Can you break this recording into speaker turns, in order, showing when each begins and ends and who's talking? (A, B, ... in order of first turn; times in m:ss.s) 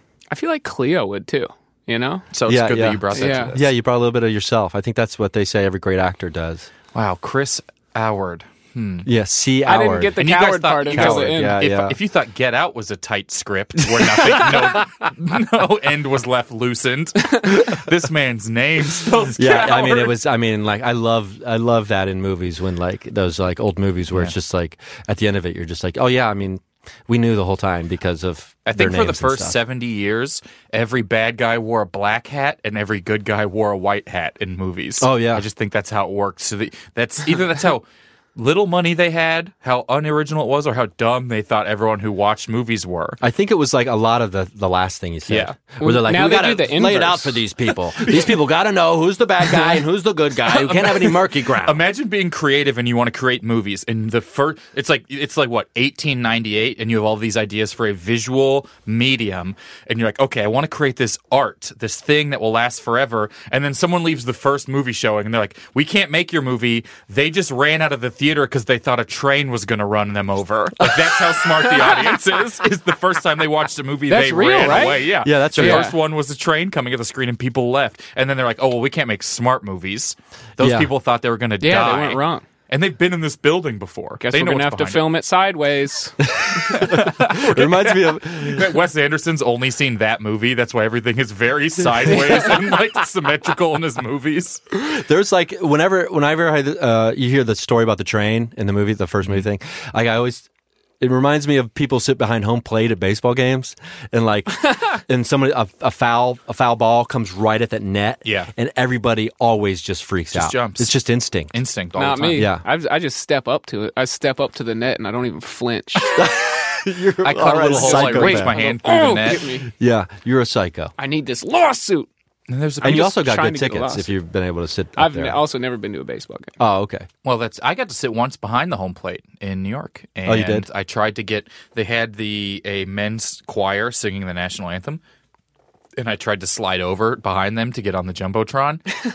0:00.3-0:02.3 A
0:02.3-0:03.7 B
0:02.5-0:06.7 C
0:03.1-0:03.6 A
0:06.9-0:09.1 B
0:09.0-0:10.2 C
0:09.7-0:11.6 A
0:10.2-0:20.2 B
0:10.9-0:12.0 C
0:13.9-0:14.8 C
0:19.4-0:29.6 C
0:28.7-0:43.2 B
0:35.0-0:35.5 C
0:43.2-0:51.8 C
0:45.3-0:45.6 B
0:45.8-0:47.4 A
0:50.5-1:25.1 B
1:14.1-1:16.0 A
1:14.6-1:15.9 C
1:20.6-1:20.9 C
1:21.6-1:22.4 A
1:24.2-1:26.2 A
1:26.3-1:28.7 C
1:26.6-1:34.6 B
1:34.7-1:40.5 C
1:41.0-1:51.6 C
1:48.2-1:48.5 B
1:50.3-1:50.9 B
1:51.5-1:52.5 B
1:52.0-1:56.3 A
1:52.3-1:52.6 C
1:56.2-1:58.6 C
1:57.2-1:59.4 B
1:57.6-1:59.7 A
1:59.7-2:00.9 C
2:01.0-2:02.1 A
2:02.5-2:03.2 B
2:02.8-2:04.2 A
2:02.8-2:05.4 C
2:05.0-2:06.6 A
2:06.6-2:07.1 C
2:07.2-2:15.0 B
2:10.3-2:10.7 C
2:16.0-2:18.8 B